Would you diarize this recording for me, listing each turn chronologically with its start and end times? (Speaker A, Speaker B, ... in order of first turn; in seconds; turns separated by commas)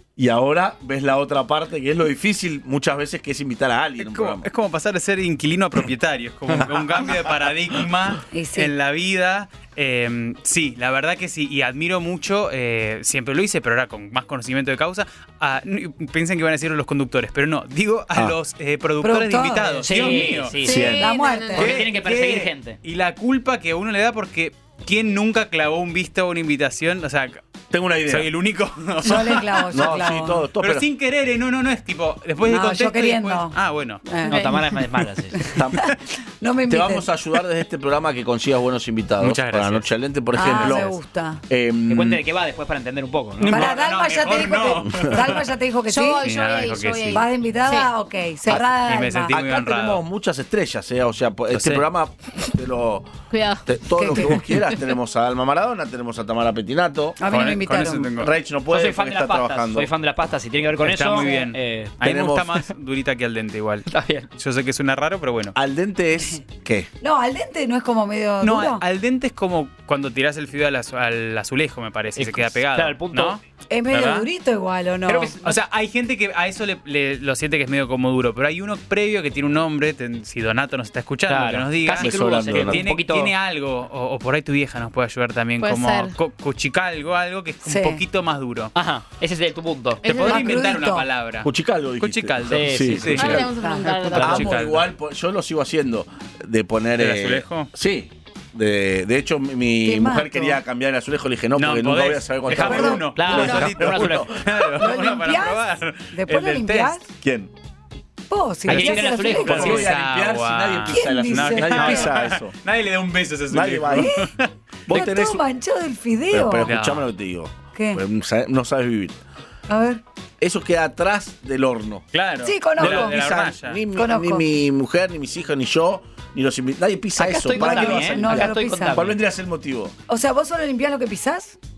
Speaker A: 0.2-4.5, Speaker B: 4.0-20.6, Speaker C: 8.3-8.7, Speaker C: 19.0-20.2, Speaker D: 19.8-20.9, Speaker E: 20.6-21.8, Speaker A: 20.6-21.1, Speaker C: 20.9-21.7, Speaker D: 21.5-22.8, Speaker B: 21.6-27.4, Speaker A: 27.7-28.3, Speaker B: 28.1-34.0, Speaker C: 29.0-30.4, Speaker A: 29.7-30.9, Speaker C: 32.5-34.8, Speaker D: 34.3-35.6, Speaker E: 34.3-34.6, Speaker C: 35.4-37.1, Speaker A: 35.6-35.8, Speaker A: 36.7-41.0, Speaker B: 39.2-39.9, Speaker C: 40.3-41.4, Speaker B: 40.4-40.9, Speaker A: 41.5-42.2, Speaker D: 41.9-43.7, Speaker B: 43.4-45.4, Speaker C: 43.5-46.3, Speaker A: 44.9-45.2, Speaker E: 45.9-47.9, Speaker B: 46.2-47.2, Speaker C: 47.1-49.4, Speaker B: 48.5-50.0, Speaker A: 49.3-53.1, Speaker B: 51.5-51.9, Speaker E: 53.3-54.8, Speaker A: 53.6-57.2, Speaker C: 54.0-54.4, Speaker C: 57.2-58.1, Speaker B: 57.3-58.3, Speaker A: 58.1-59.9, Speaker D: 58.7-62.0, Speaker B: 60.8-65.6, Speaker A: 62.0-62.5, Speaker D: 63.9-64.3, Speaker A: 65.5-66.9, Speaker C: 67.0-68.8, Speaker B: 68.4-74.3, Speaker D: 72.2-73.4, Speaker C: 73.7-75.3, Speaker D: 75.1-75.6, Speaker B: 75.4-88.7, Speaker D: 81.3-83.3, Speaker A: 82.0-82.8, Speaker E: 85.6-86.2, Speaker C: 87.6-88.0, Speaker D: 88.8-90.5, Speaker B: 90.0-94.8, Speaker C: 90.0-91.1, Speaker A: 91.4-93.5, Speaker D: 92.5-93.4, Speaker E: 93.2-94.5, Speaker C: 93.6-94.2, Speaker D: 94.1-94.5, Speaker A: 94.2-104.6, Speaker B: 97.0-97.7, Speaker C: 99.8-100.6, Speaker B: 101.5-107.0, Speaker D: 102.5-104.3, Speaker C: 102.6-103.1, Speaker C: 104.8-107.0, Speaker A: 107.2-107.5, Speaker C: 108.3-109.9, Speaker D: 108.7-109.9, Speaker A: 108.7-112.5, Speaker B: 108.8-114.5, Speaker C: 110.9-112.1, Speaker A: 113.5-114.2, Speaker C: 113.9-114.3, Speaker A: 114.9-115.4, Speaker C: 114.9-116.7, Speaker A: 116.3-119.2, Speaker B: 116.7-117.1, Speaker C: 117.8-118.0, Speaker C: 119.7-120.0, Speaker A: 120.4-122.0, Speaker B: 122.1-123.8, Speaker C: 122.4-123.3, Speaker A: 122.8-129.9, Speaker C: 124.0-124.5, Speaker D: 127.2-129.2, Speaker C: 127.5-129.0, Speaker C: 130.1-131.6